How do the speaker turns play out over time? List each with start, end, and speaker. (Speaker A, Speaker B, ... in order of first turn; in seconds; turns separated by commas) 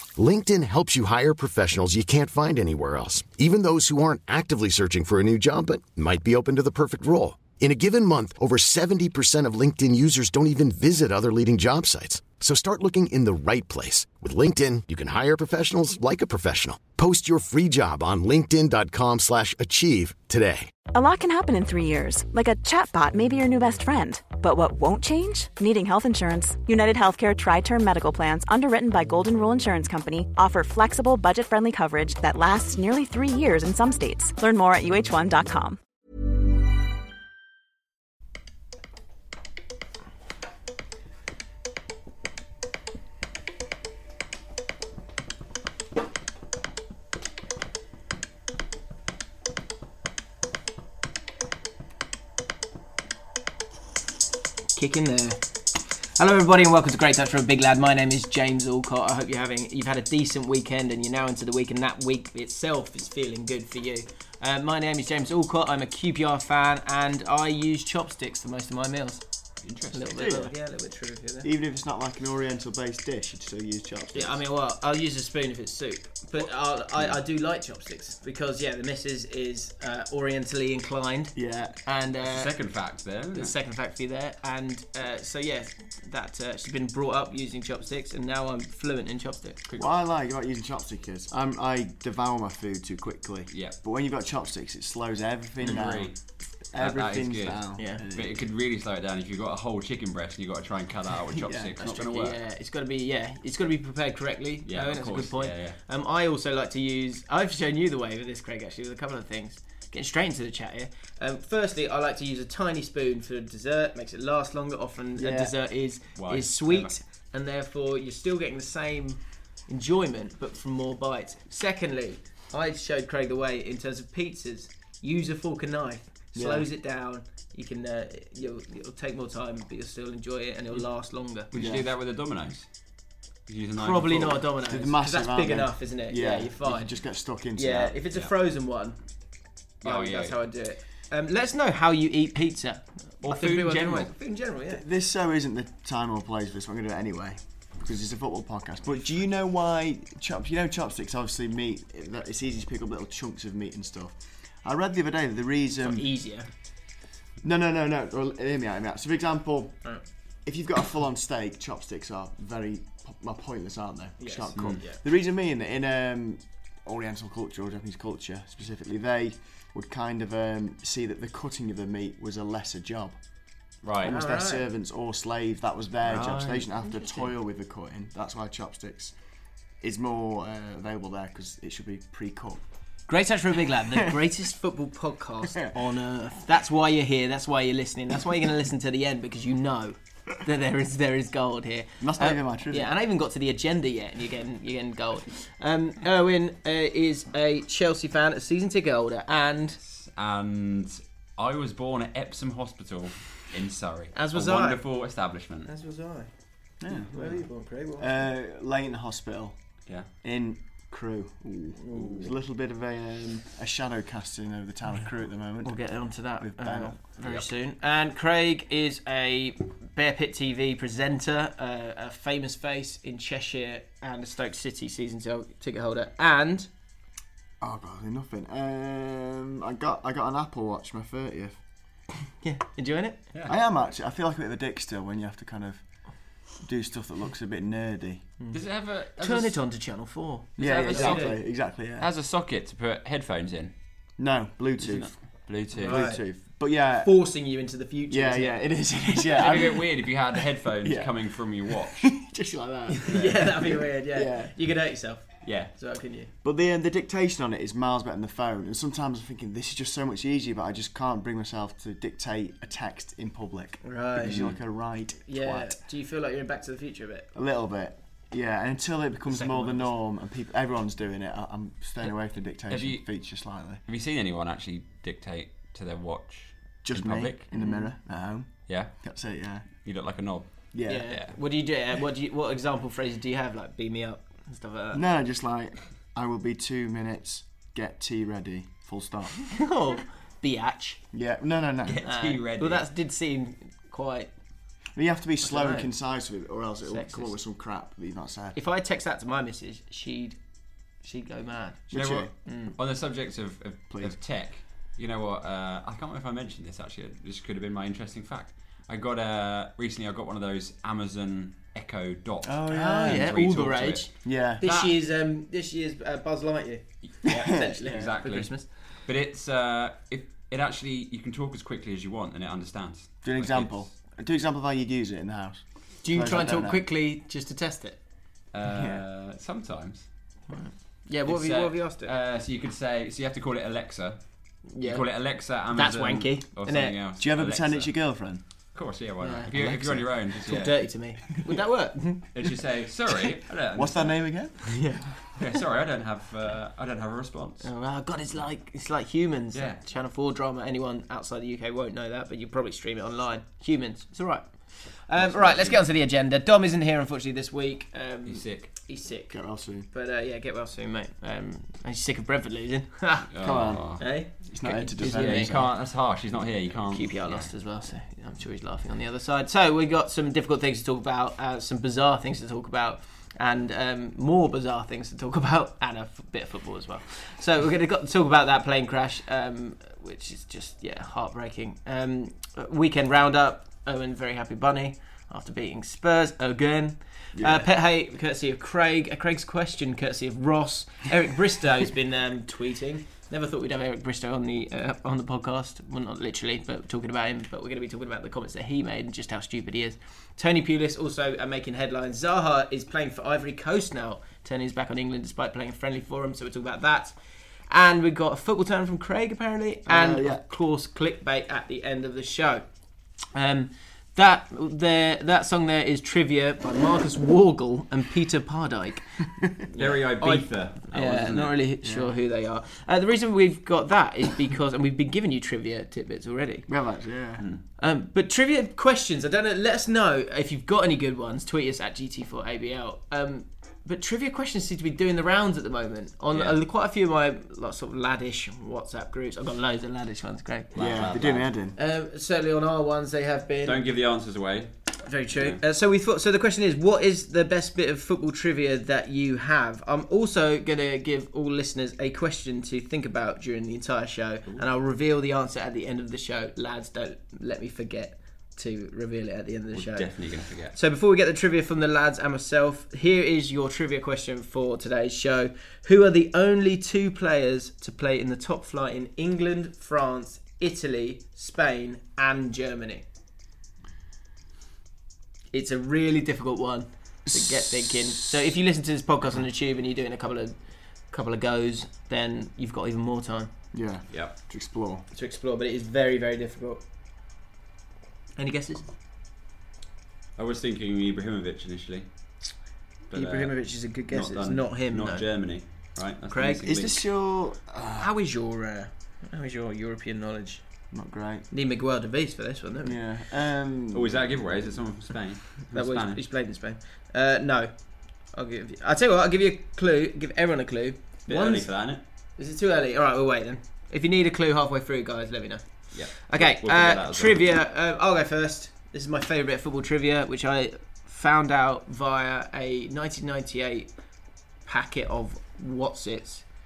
Speaker A: 0.2-20.6, Speaker B: 3.0-3.4, Speaker B: 5.7-7.6, Speaker B: 12.2-12.6, Speaker B: 13.7-14.3, Speaker B: 14.8-35.8, Speaker C: 54.7-55.4, Speaker C: 56.1-69.2, Speaker D: 69.6-70.3, Speaker C: 69.9-71.5, Speaker E: 70.1-70.5, Speaker E: 71.4-74.4, Speaker C: 74.1-82.5, Speaker E: 81.3-81.8, Speaker D: 82.2-83.5, Speaker C: 83.3-89.6, Speaker E: 89.8-96.2, Speaker D: 95.6-96.2, Speaker E: 96.7-98.4, Speaker D: 96.8-102.4, Speaker E: 101.3-101.7, Speaker C: 101.8-131.5, Speaker D: 104.7-105.8, Speaker E: 115.2-115.5, Speaker D: 116.2-117.0, Speaker E: 126.3-126.7, Speaker D: 131.5-132.7, Speaker E: 131.5-131.8, Speaker D: 133.5-134.4, Speaker C: 133.8-136.9, Speaker E: 134.6-138.0, Speaker C: 137.5-139.0, Speaker D: 139.8-140.4, Speaker C: 139.8-144.8, Speaker D: 143.2-144.1, Speaker E: 144.7-156.1, Speaker C: 155.8-156.5, Speaker E: 157.4-159.8, Speaker E: 160.4-173.2, Speaker C: 164.2-165.0, Speaker D: 164.5-164.8, Speaker D: 173.8-174.2, Speaker E: 174.0-179.1, Speaker C: 174.0-174.6, Speaker C: 176.0-177.3, Speaker E: 179.8-182.6, Speaker C: 183.1-199.8, Speaker E: 192.0-192.9, Speaker D: 199.8-205.7, Speaker C: 204.1-204.8, Speaker C: 205.6-206.3, Speaker E: 206.8-207.4, Speaker C: 206.9-208.2, Speaker E: 208.0-209.6, Speaker E: 210.2-215.8, Speaker C: 211.8-212.3, Speaker C: 215.6-226.7, Speaker E: 216.4-217.0, Speaker E: 227.6-231.6, Speaker C: 232.4-233.2, Speaker E: 233.5-235.8, Speaker E: 236.6-238.3, Speaker D: 238.5-239.6, Speaker C: 239.2-241.3, Speaker D: 240.6-241.4, Speaker E: 240.6-242.1, Speaker D: 242.0-243.7, Speaker E: 244.2-245.1, Speaker D: 244.8-246.1, Speaker E: 245.7-247.1, Speaker C: 245.8-246.2, Speaker C: 247.0-249.6, Speaker E: 248.1-250.1, Speaker D: 249.3-252.1, Speaker E: 250.8-251.1, Speaker E: 251.6-254.5, Speaker C: 252.9-256.3, Speaker D: 253.1-253.4, Speaker D: 255.4-255.7, Speaker E: 256.4-265.8, Speaker C: 263.8-264.4, Speaker D: 264.2-264.6, Speaker C: 265.2-267.3, Speaker E: 267.3-273.8, Speaker C: 269.3-269.9, Speaker D: 272.7-273.1, Speaker D: 273.9-277.4, Speaker E: 276.8-279.7, Speaker C: 277.5-277.8, Speaker D: 279.8-281.3, Speaker E: 280.7-281.1, Speaker C: 280.9-285.0, Speaker E: 284.9-289.5, Speaker C: 289.5-291.0, Speaker E: 291.1-292.0, Speaker D: 291.9-292.9, Speaker C: 292.0-294.3, Speaker E: 294.9-298.6, Speaker C: 295.4-295.9, Speaker C: 296.8-297.4, Speaker C: 298.5-300.4, Speaker C: 301.0-301.9, Speaker E: 301.9-302.3, Speaker D: 301.9-314.1, Speaker C: 302.4-302.7, Speaker E: 312.4-313.3, Speaker C: 312.7-318.6, Speaker E: 314.2-314.6, Speaker D: 314.6-314.9, Speaker D: 317.2-323.9, Speaker E: 317.3-318.0, Speaker E: 323.2-326.8, Speaker C: 326.0-328.0, Speaker D: 328.5-330.1, Speaker E: 328.6-329.0, Speaker C: 330.5-332.1, Speaker D: 331.2-334.2, Speaker C: 334.7-335.0, Speaker D: 334.8-337.9, Speaker C: 335.7-336.9, Speaker E: 337.2-338.4, Speaker D: 338.7-340.8, Speaker C: 339.2-339.5, Speaker E: 339.5-340.2, Speaker C: 340.4-342.3, Speaker D: 342.3-344.2, Speaker E: 343.7-345.0, Speaker C: 344.6-345.4, Speaker D: 345.3-347.6, Speaker C: 347.6-359.4, Speaker D: 349.5-349.8, Speaker D: 355.1-355.8, Speaker D: 358.2-358.7, Speaker E: 359.3-359.9, Speaker C: 359.9-363.3, Speaker D: 363.3-364.0, Speaker E: 363.4-365.7, Speaker C: 364.0-365.6, Speaker D: 365.0-367.5, Speaker C: 366.9-407.1, Speaker E: 387.3-387.7, Speaker C: 407.7-412.7, Speaker E: 409.9-410.4, Speaker C: 413.3-426.7, Speaker D: 419.8-421.6, Speaker E: 421.8-422.1, Speaker E: 426.7-427.4, Speaker C: 427.8-443.8, Speaker D: 436.3-436.6, Speaker D: 440.7-441.4, Speaker E: 440.7-441.8, Speaker D: 443.6-444.7, Speaker C: 445.0-473.0, Speaker D: 445.3-445.6, Speaker D: 459.7-460.8, Speaker C: 475.5-480.6, Speaker E: 477.2-478.3, Speaker C: 481.1-483.5, Speaker E: 483.7-485.1, Speaker C: 485.1-486.8, Speaker C: 488.4-488.9, Speaker D: 490.4-492.1, Speaker D: 493.1-497.0, Speaker C: 493.1-495.2, Speaker C: 496.3-496.7, Speaker E: 496.6-498.1, Speaker C: 498.0-500.6, Speaker E: 500.9-501.5, Speaker C: 501.5-503.0, Speaker E: 502.8-504.2, Speaker D: 503.9-506.2, Speaker C: 505.7-507.7, Speaker C: 508.3-511.7, Speaker D: 511.3-512.0, Speaker C: 512.4-523.9, Speaker D: 515.9-517.4, Speaker C: 524.6-526.4